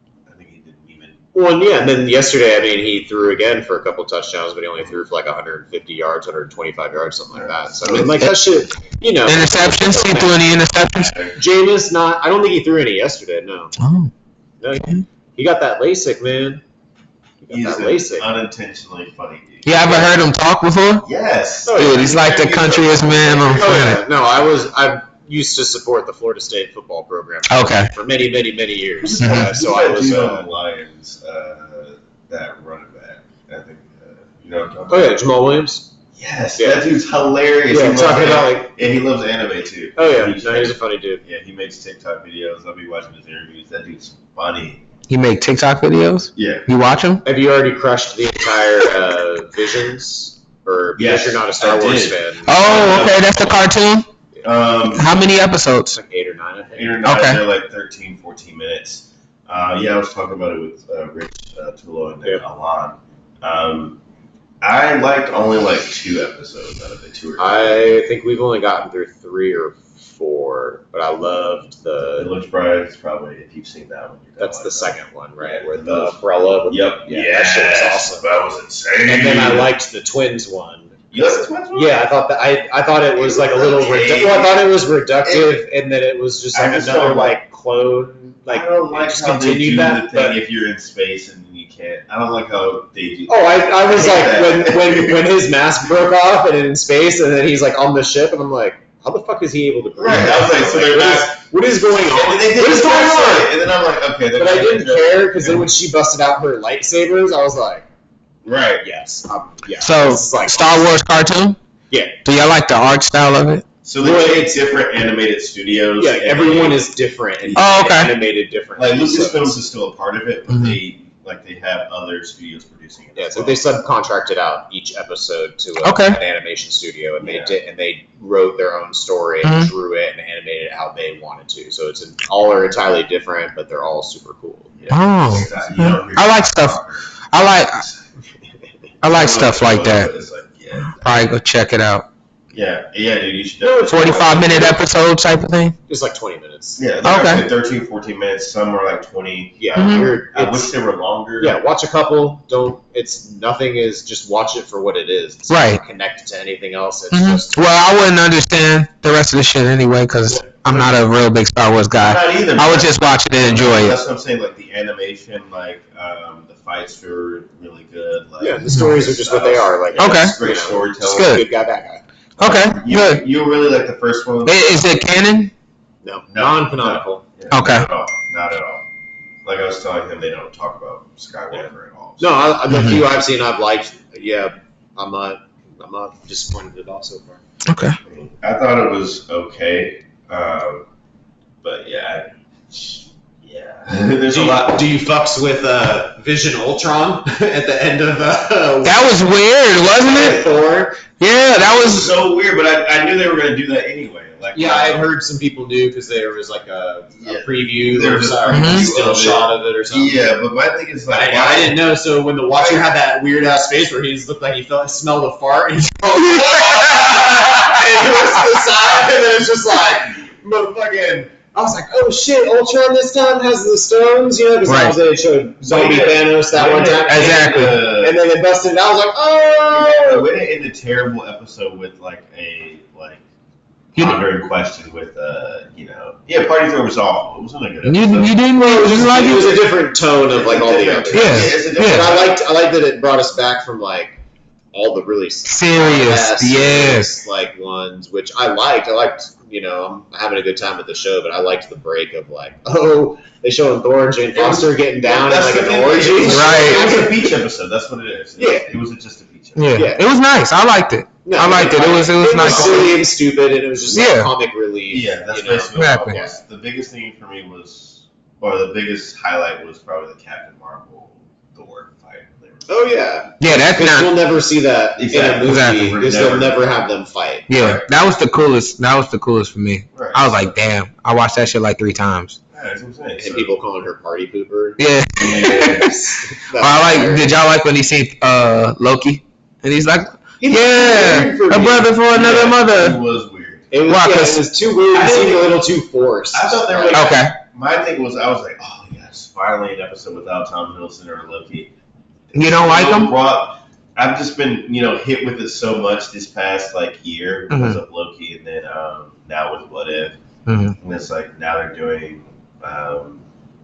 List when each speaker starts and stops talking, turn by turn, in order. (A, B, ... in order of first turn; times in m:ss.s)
0:00.3-0:01.2 A
0:01.3-0:10.5 B
0:07.3-0:08.3 A
0:09.3-0:11.2 C
0:11.0-0:11.3 A
0:11.3-0:13.7 B
0:13.8-0:14.1 C
0:14.6-0:16.6 B
0:17.4-0:18.3 B
0:17.5-0:20.2 A
0:19.6-0:21.1 C
0:21.0-0:23.9 A
0:21.6-0:22.3 B
0:21.7-0:24.0 C
0:23.5-0:30.5 B
0:27.5-0:27.9 C
0:29.0-0:35.2 A
0:29.2-0:29.5 C
0:34.9-0:35.9 B
0:36.2-0:44.8 A
0:36.6-0:36.9 B
0:37.7-0:38.7 B
0:40.0-0:41.2 B
0:45.1-0:47.2 C
0:46.4-0:46.7 A
0:47.2-0:52.7 B
0:51.0-0:53.7 A
0:52.5-0:54.1 C
0:54.4-0:55.2 A
0:54.9-0:56.0 C
0:55.9-0:57.0 B
0:56.8-1:04.0 A
0:57.0-0:57.4 C
1:04.6-1:07.8 A
1:07.4-1:12.3 B
1:12.2-1:19.7 A
1:14.4-1:18.2 B
1:19.0-1:30.4 B
1:21.1-1:22.0 A
1:23.2-1:24.7 A
1:25.2-1:25.6 A
1:26.5-1:27.4 A
1:28.5-1:35.2 A
1:33.3-1:43.6 B
1:40.0-1:41.4 A
1:42.0-1:45.7 A
1:44.4-1:47.9 B
1:48.4-1:48.8 A
1:48.8-1:51.0 B
1:49.8-1:51.6 C
1:51.9-1:52.2 B
1:52.2-1:53.7 C
1:53.8-1:56.8 A
1:54.0-1:54.6 B
1:56.0-1:59.6 B
1:57.4-1:57.7 A
1:57.6-1:58.1 C
1:58.8-2:03.6 A
2:00.5-2:00.8 C
2:03.2-2:14.7 B
2:05.8-2:06.2 C
2:07.2-2:07.6 A
2:09.4-2:09.7 C
2:14.8-2:17.0 A
2:14.9-2:16.8 C
2:17.3-2:17.9 C
2:19.0-2:20.1 C
2:19.0-2:21.3 A
2:20.9-2:22.1 C
2:22.5-2:24.8 A
2:23.6-2:24.8 B
2:23.9-2:25.8 C
2:25.9-2:26.8 B
2:26.8-2:31.6 A
2:27.0-2:27.5 C
2:29.6-2:30.7 B
2:29.8-2:30.1 C
2:31.4-2:37.7 B
2:35.5-2:35.8 C
2:37.1-2:44.0 C
2:40.3-2:41.0 B
2:42.0-2:51.4 A
2:48.4-2:52.0 B
2:50.0-2:50.4 C
2:51.0-2:51.5 C
2:52.4-2:53.2 C
2:52.4-2:54.8 A
2:54.5-2:55.5 C
2:56.0-2:57.2 B
2:56.3-2:58.8 A
2:57.5-2:57.9 C
2:59.4-3:02.6 A
3:02.2-3:07.4 B
3:02.7-3:03.0 C
3:07.7-3:08.0 C
3:08.0-3:10.9 A
3:11.6-3:14.8 A
3:14.3-3:19.2 B
3:18.8-3:20.5 C
3:19.8-3:21.0 B
3:21.1-3:22.1 C
3:21.7-3:25.1 A
3:24.5-3:30.4 B
3:27.2-3:31.8 A
3:28.5-3:28.9 C
3:31.1-3:50.3 B
3:32.6-3:32.9 A
3:44.7-3:45.0 C
3:45.6-3:48.2 A
3:47.1-3:47.8 C
3:49.7-3:53.2 A
3:53.9-3:58.4 A
3:54.0-3:54.2 C
3:57.8-3:59.6 C
3:58.6-4:04.2 B
4:00.3-4:02.4 A
4:01.1-4:02.1 C
4:04.7-4:17.4 B
4:05.5-4:07.1 C
4:14.3-4:19.8 A
4:16.2-4:16.9 C
4:18.4-4:18.7 B
4:19.6-4:23.0 C
4:19.7-4:20.0 B
4:21.2-4:26.4 B
4:22.3-4:23.0 A
4:23.9-4:24.3 C
4:24.9-4:32.7 A
4:25.8-4:26.2 C
4:32.7-4:37.5 B
4:33.4-4:34.1 C
4:35.0-4:36.6 A
4:35.4-4:35.9 C
4:37.5-4:42.4 C
4:37.6-4:37.9 A
4:39.9-4:40.5 A
4:42.5-4:43.5 A
4:43.2-4:47.4 B
4:44.8-4:53.0 C
4:45.2-4:46.0 A
4:50.4-4:52.0 B
4:52.1-4:53.8 A
4:53.7-4:57.2 B
4:53.9-4:54.5 C
4:54.8-4:55.6 A
4:56.3-5:01.7 A
4:56.9-4:57.3 C
5:02.3-5:10.2 A
5:02.3-5:03.1 C
5:07.5-5:07.8 C
5:10.5-5:10.8 C
5:10.8-5:13.2 A